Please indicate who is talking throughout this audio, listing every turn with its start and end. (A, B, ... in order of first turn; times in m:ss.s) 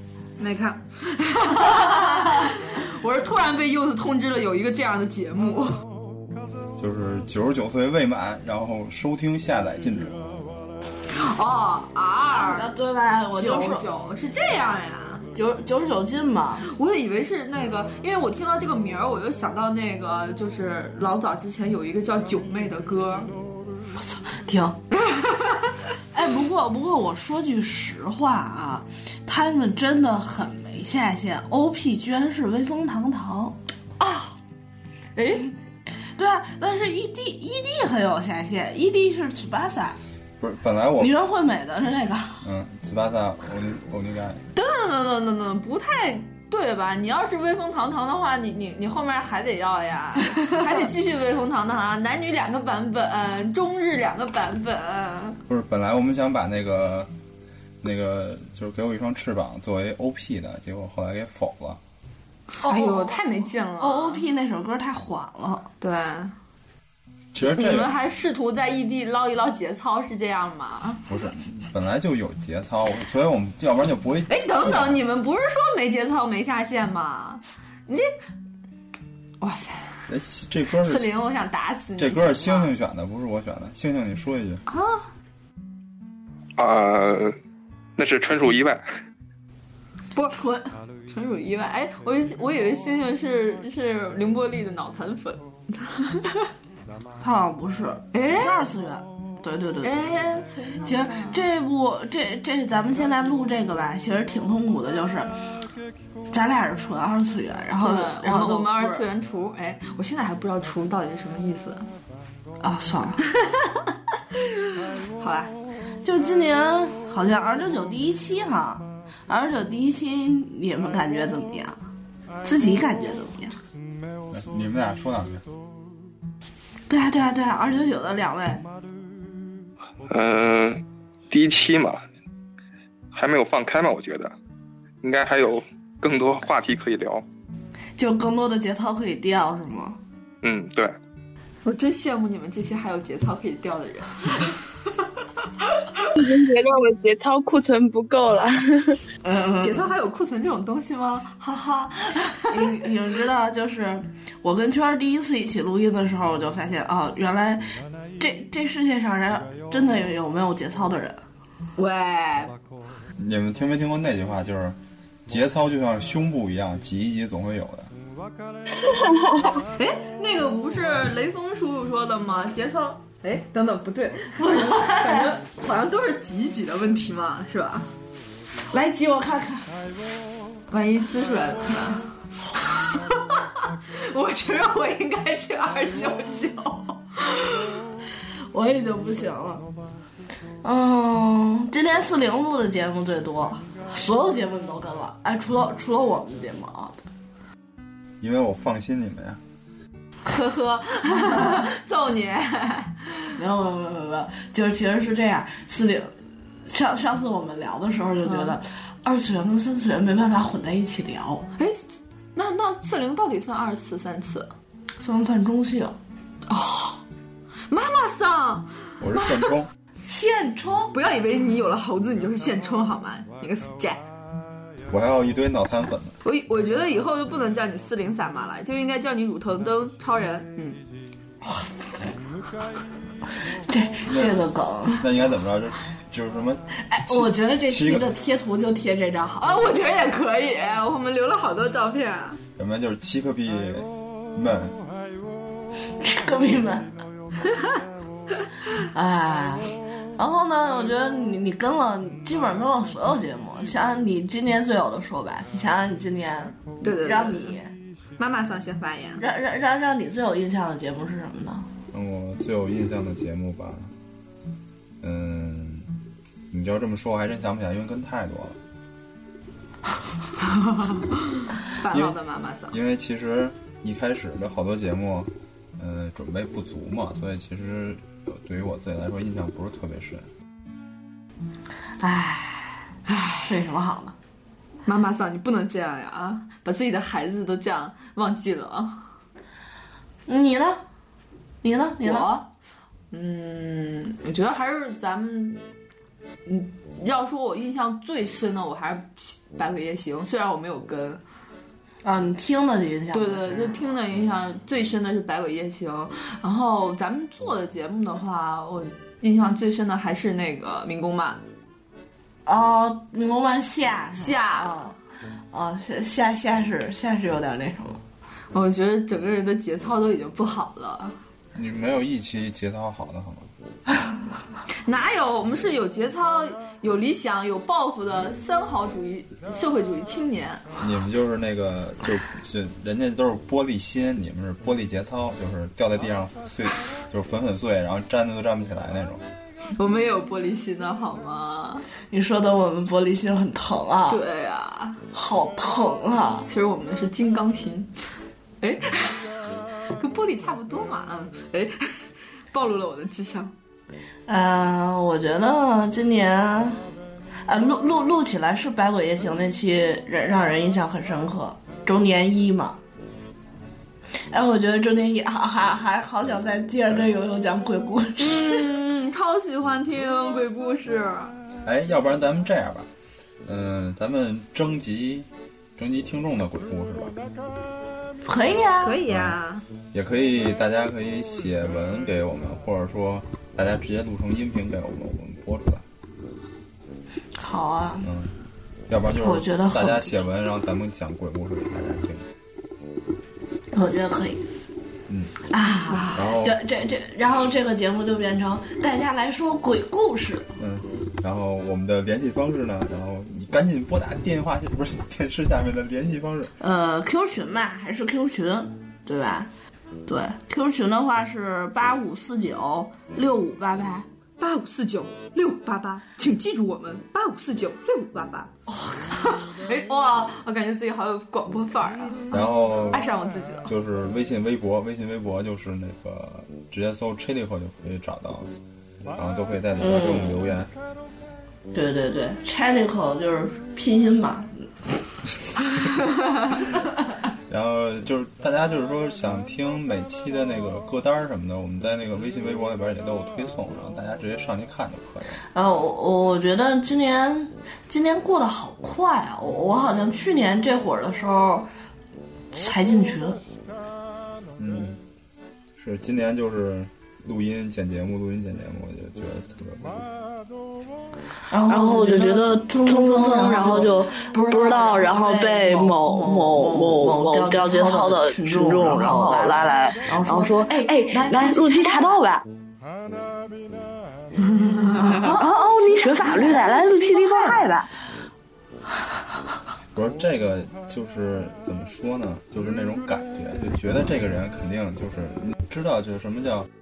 0:00.4-0:05.8 A
0:06.8-0:10.2 B
0:11.1-0:12.7 A
0:12.3-0:13.8 C
0:13.3-0:15.2 A
0:15.3-0:16.6 C
0:16.7-0:23.3 A
0:24.0-0:24.8 C
0:25.0-0:25.7 A
0:26.1-0:33.6 C
0:34.0-0:34.3 A
0:35.1-0:35.5 A
0:36.2-0:40.0 C
0:40.4-0:41.1 B
0:41.0-0:42.4 C
0:42.4-0:44.4 B
0:44.5-0:55.4 A
0:55.5-0:57.1 B
0:57.8-1:01.8 B
1:02.6-1:03.2 C
1:02.6-1:04.2 A
1:03.8-1:05.7 C
1:05.8-1:06.3 A
1:07.3-1:07.9 B
1:07.4-1:11.0 A
1:11.0-1:15.0 B
1:14.3-1:18.1 A
1:19.4-1:19.9 A
1:20.1-1:21.1 B
1:20.8-1:22.7 A
1:22.0-1:24.6 B
1:24.7-1:25.0 A
1:26.6-1:27.4 D
1:28.0-1:28.8 D
1:30.3-1:30.7 C
1:31.1-1:36.5 A
1:37.2-1:40.0 C
1:38.1-1:38.6 A
1:39.8-1:41.4 A
1:40.8-1:45.3 C
1:46.3-1:49.0 C
1:47.8-1:51.9 A
1:52.6-1:53.2 C
1:55.2-1:55.5 A
1:56.0-2:01.8 C
2:02.4-2:03.6 C
2:04.3-2:05.4 B
2:06.9-2:08.6 C
2:10.1-2:12.0 D
2:13.1-2:14.3 D
2:15.0-2:17.2 D
2:18.0-2:20.0 C
2:20.4-2:20.9 D
2:21.6-2:24.6 A
2:25.6-2:26.1 A
2:26.1-2:29.0 E
2:29.2-2:29.9 C
2:29.6-2:32.8 A
2:32.5-2:37.6 C
2:38.2-2:41.2 C
2:41.8-2:42.5 A
2:43.2-2:47.9 B
2:49.8-2:57.9 A
2:54.4-2:55.4 C
2:58.7-2:59.7 C
3:00.7-3:07.7 A
3:08.5-3:09.6 C
3:10.6-3:17.0 C
3:18.2-3:19.4 B
3:20.2-3:23.3 A
3:23.4-3:26.1 C
3:26.7-3:31.5 C
3:28.2-3:28.6 A
3:32.3-3:34.5 A
3:35.0-3:36.0 C
3:36.5-3:37.0 A
3:37.7-3:39.5 A
3:39.0-3:39.7 B
3:40.1-3:40.9 C
3:40.9-3:44.0 A
3:44.9-3:46.2 B
3:46.2-3:50.8 A
3:53.7-3:55.0 C
3:54.0-3:54.4 B
3:55.0-3:58.1 B
3:56.9-3:59.4 C
3:59.4-4:02.4 A
4:02.6-4:04.8 B
4:06.0-4:06.9 C
4:07.5-4:07.8 A
4:08.9-4:17.7 C
4:16.8-4:17.5 A
4:18.2-4:19.2 A
4:19.2-4:21.7 C
4:21.9-4:23.9 B
4:25.0-4:25.9 B
4:26.5-4:28.6 B
4:30.5-4:32.8 A
4:31.9-4:32.2 B
4:32.7-4:40.3 B
4:42.0-4:42.9 C
4:43.1-4:43.5 A
4:43.4-4:44.1 C
4:44.8-4:49.1 A
4:50.3-4:50.8 C
4:51.6-4:52.3 C
4:52.0-4:52.5 A
4:53.1-4:55.6 A
4:56.4-5:01.2 A
5:02.0-5:03.8 C
5:03.1-5:11.4 A
5:12.4-5:14.9 C
5:14.1-5:14.9 A
5:15.5-5:18.0 C
5:18.5-5:21.2 A
5:21.5-5:23.5 B
5:24.8-5:30.6 A
5:30.8-5:39.2 B
5:39.8-5:41.9 A
5:42.1-5:44.2 C
5:44.1-5:45.0 A
5:45.1-5:46.4 C
5:46.4-5:47.9 A
5:48.6-5:53.5 A
5:54.3-5:56.8 C
5:57.4-6:02.8 C
6:04.3-6:08.7 C
6:08.2-6:11.3 A
6:11.6-6:12.9 B
6:13.4-6:17.1 B
6:18.2-6:19.0 C
6:18.8-6:19.6 A
6:19.1-6:19.4 B
6:19.9-6:25.8 B
6:27.4-6:28.0 C
6:28.0-6:28.3 B
6:28.9-6:32.3 B
6:29.2-6:30.1 C
6:33.7-6:34.4 C
6:35.1-6:35.4 B
6:35.5-6:40.5 C
6:36.1-6:36.6 B
6:40.6-6:46.5 B
6:46.6-6:49.5 C
6:50.1-6:54.1 C
6:54.4-7:03.7 A
7:02.3-7:03.1 B
7:03.6-7:08.5 B
7:09.1-7:10.7 B
7:09.8-7:10.5 C
7:11.7-7:14.7 C
7:17.5-7:25.4 B
7:25.5-7:31.7 C
7:32.5-7:33.4 C
7:34.6-7:35.0 B
7:35.8-7:40.1 B
7:41.5-7:52.2 C
7:41.7-7:52.4 F
7:54.9-7:57.7 C
7:54.9-7:57.9 F
7:59.9-8:06.7 B